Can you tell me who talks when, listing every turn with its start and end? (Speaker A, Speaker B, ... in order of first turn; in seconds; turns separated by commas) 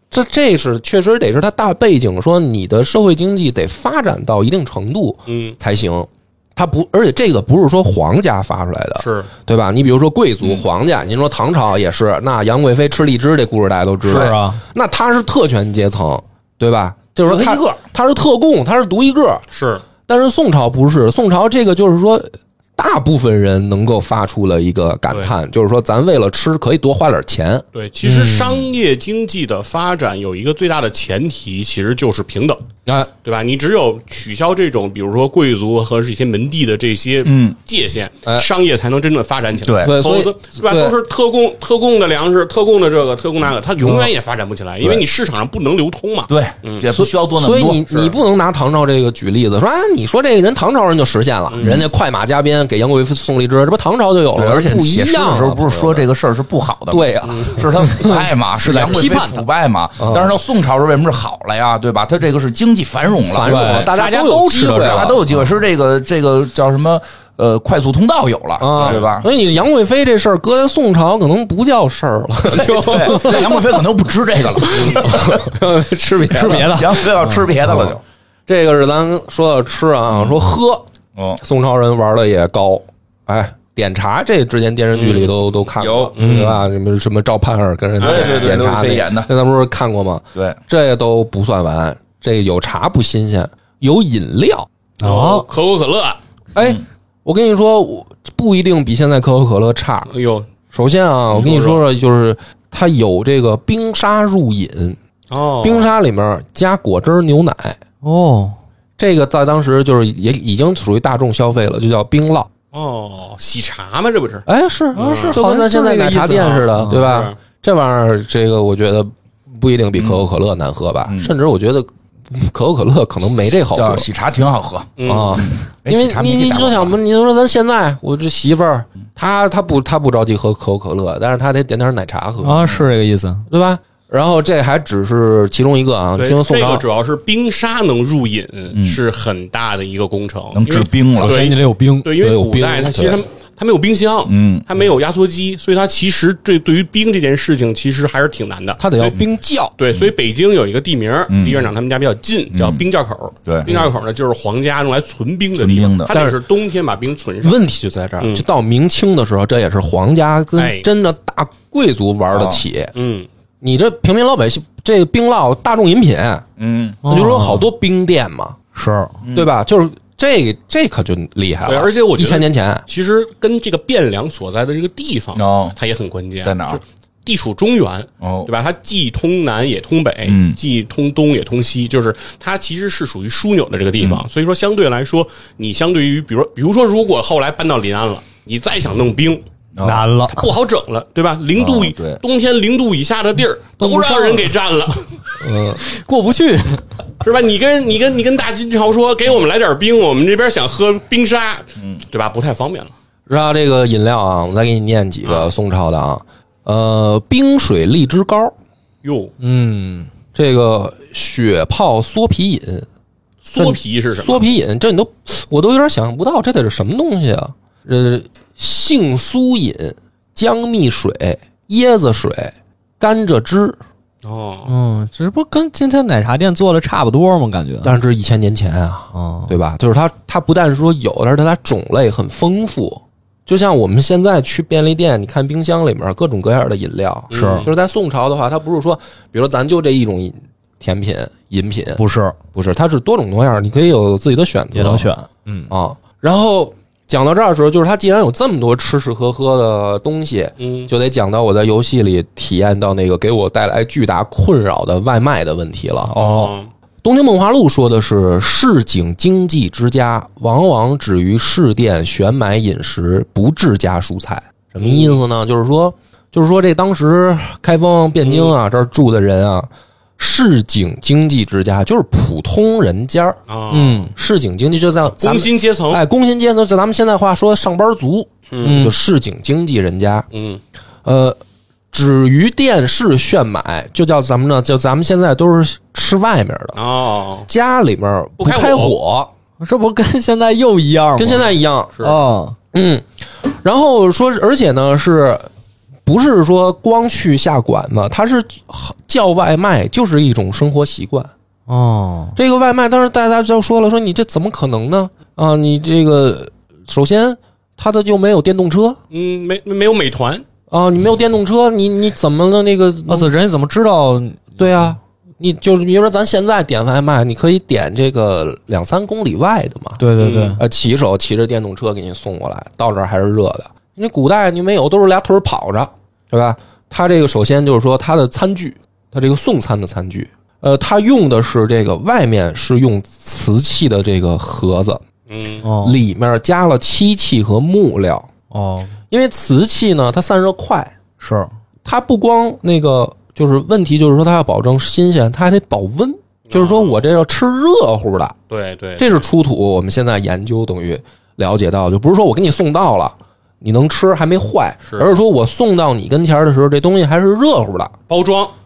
Speaker A: 0.1-19.4, Speaker B: 5.3-5.6, Speaker B: 9.0-9.3, Speaker C: 14.1-14.6, Speaker D: 17.2-17.8, Speaker B: 19.5-19.8, Speaker A: 20.1-27.6, Speaker B: 27.7-32.6, Speaker C: 28.1-28.6, Speaker A: 32.9-33.1, Speaker B: 33.2-46.9, Speaker D: 37.2-37.6, Speaker D: 39.6-40.0, Speaker A: 39.8-41.0, Speaker D: 43.8-44.1, Speaker D: 46.3-48.1, Speaker A: 46.9-56.1, Speaker B: 51.5-51.8, Speaker D: 51.6-51.9, Speaker D: 54.4-69.3, Speaker A: 56.9-58.1, Speaker B: 57.2-57.6, Speaker C: 58.0-59.5, Speaker A: 60.0-60.3, Speaker A: 63.3-65.2, Speaker C: 63.4-65.2, Speaker A: 68.6-73.6, Speaker B: 68.8-69.0, Speaker D: 72.8-75.5, Speaker C: 72.9-73.6, Speaker A: 74.6-77.1, Speaker B: 74.8-75.1, Speaker C: 76.3-77.9, Speaker D: 76.3-78.0, Speaker A: 77.7-77.9, Speaker A: 78.5-80.9, Speaker D: 80.1-80.4, Speaker D: 81.2-81.4, Speaker A: 81.4-94.7, Speaker B: 85.0-85.3, Speaker D: 85.8-86.1, Speaker B: 86.2-86.6, Speaker C: 86.2-86.6, Speaker B: 88.0-88.5, Speaker D: 88.0-89.3, Speaker C: 95.0-95.5, Speaker B: 95.0-96.2, Speaker A: 96.5-100.1, Speaker D: 96.6-96.8, Speaker B: 100.1-100.5, Speaker A: 100.7-105.0, Speaker B: 101.3-101.8, Speaker B: 105.3-105.9, Speaker A: 105.6-107.8, Speaker C: 108.0-108.6, Speaker A: 109.0-112.5, Speaker B: 112.7-114.5, Speaker A: 114.5-124.1, Speaker C: 114.9-117.1, Speaker B: 115.0-115.4, Speaker B: 116.3-117.3, Speaker D: 120.0-120.2, Speaker D: 121.1-121.3, Speaker D: 123.7-127.0, Speaker B: 125.0-125.5, Speaker A: 125.1-132.8, Speaker C: 132.4-133.5, Speaker A: 133.5-136.8, Speaker B: 136.2-149.2, Speaker D: 138.7-139.0, Speaker D: 140.5-141.4, Speaker C: 141.2-142.1, Speaker A: 142.2-143.2, Speaker D: 144.3-144.7, Speaker A: 148.8-149.7, Speaker B: 149.8-157.6, Speaker D: 151.3-151.7, Speaker D: 152.5-152.8, Speaker D: 153.5-153.8, Speaker D: 155.6-156.2, Speaker A: 157.4-162.9, Speaker B: 158.2-158.5, Speaker B: 160.6-160.9, Speaker D: 162.3-162.6, Speaker B: 162.9-163.3, Speaker A: 163.6-166.4, Speaker D: 166.6-167.0, Speaker C: 167.0-167.7, Speaker A: 167.1-168.6, Speaker C: 168.8-169.2, Speaker D: 169.2-169.5, Speaker A: 169.3-172.8, Speaker B: 171.7-189.4, Speaker D: 175.3-175.8, Speaker D: 176.4-176.8, Speaker D: 178.2-178.5, Speaker D: 180.2-180.6, Speaker D: 184.0-184.3, Speaker D: 189.7-190.1, Speaker C: 189.8-190.5, Speaker B: 190.3-195.2, Speaker D: 191.6-192.2, Speaker D: 193.8-194.4, Speaker A: 195.4-195.8, Speaker C: 195.8-196.9, Speaker B: 197.2-202.9, Speaker A: 203.3-208.5, Speaker B: 205.2-205.5, Speaker B: 209.0-209.3, Speaker C: 209.4-210.1, Speaker A: 209.8-212.9, Speaker B: 213.4-214.5, Speaker A: 213.5-223.8, Speaker B: 224.2-224.7, Speaker C: 224.7-228.0, Speaker A: 227.8-242.0, Speaker C: 229.1-229.5, Speaker C: 237.3-237.7, Speaker B: 237.3-237.7, Speaker C: 242.0-242.4, Speaker A: 242.5-245.1, Speaker C: 244.7-245.7, Speaker A: 245.7-256.2, Speaker B: 250.6-250.9, Speaker C: 256.1-256.5, Speaker B: 256.1-256.7, Speaker A: 257.0-273.4, Speaker B: 264.8-265.2, Speaker B: 268.2-268.5, Speaker B: 273.5-274.1, Speaker C: 273.7-274.1, Speaker A: 274.1-280.3, Speaker B: 275.2-276.0, Speaker B: 278.5-278.9, Speaker C: 278.6-278.9, Speaker B: 280.3-280.6, Speaker A: 281.1-281.4, Speaker A: 281.9-286.8, Speaker B: 286.8-287.5, Speaker A: 287.5-289.3, Speaker B: 288.4-289.0, Speaker C: 289.6-292.6, Speaker A: 291.2-291.9, Speaker A: 292.7-295.5, Speaker A: 296.1-301.3, Speaker C: 301.7-302.4, Speaker A: 302.4-309.0, Speaker B: 309.1-310.4, Speaker A: 310.7-313.3, Speaker C: 313.1-314.9, Speaker A: 314.6-320.0, Speaker C: 320.0-320.6, Speaker B: 320.2-320.6, Speaker A: 320.6-335.0, Speaker B: 335.3-335.6, Speaker C: 335.6-336.0, Speaker A: 335.8-338.3, Speaker C: 338.5-338.9, Speaker A: 339.1-340.9, Speaker C: 341.2-341.5, Speaker A: 341.9-348.4, Speaker B: 346.5-347.1, Speaker B: 348.5-349.3, Speaker A: 349.0-357.9, Speaker B: 354.9-355.2, Speaker B: 358.1-358.5